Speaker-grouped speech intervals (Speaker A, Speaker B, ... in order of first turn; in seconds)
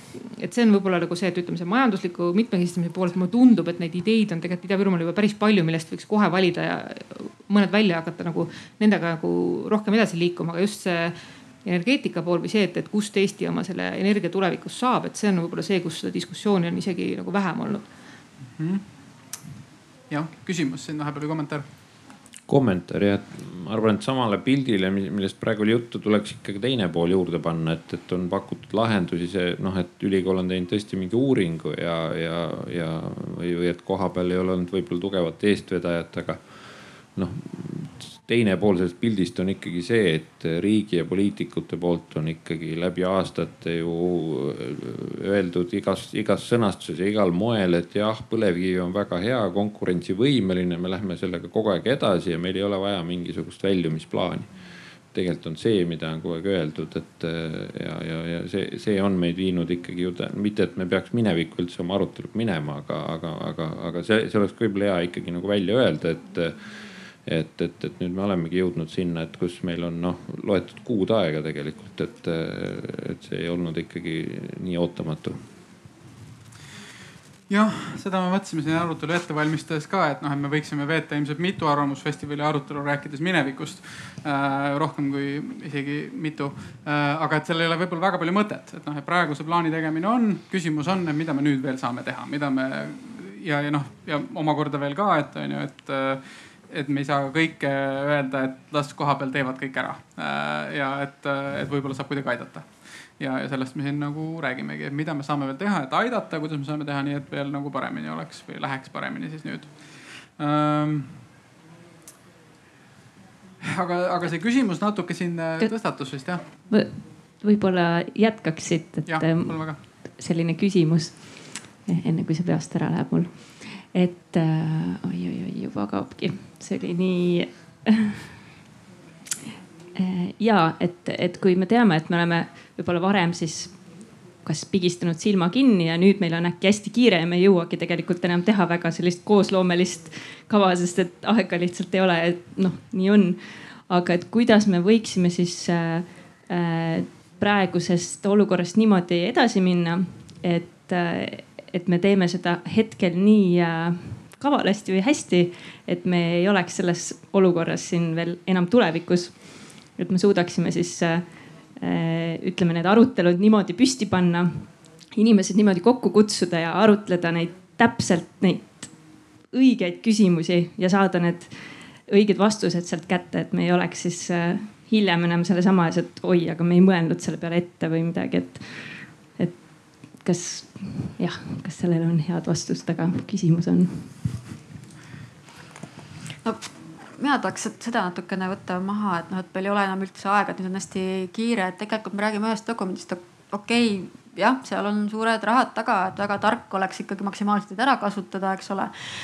Speaker A: 0.1-17.9
Speaker B: 18.6-19.0, 20.1-21.7, 77.5-111.2, 113.6-116.5, 119.0-119.8
Speaker C: 22.5-75.4
Speaker D: 116.5-128.1, 130.0-184.4
Speaker E: 186.4-198.9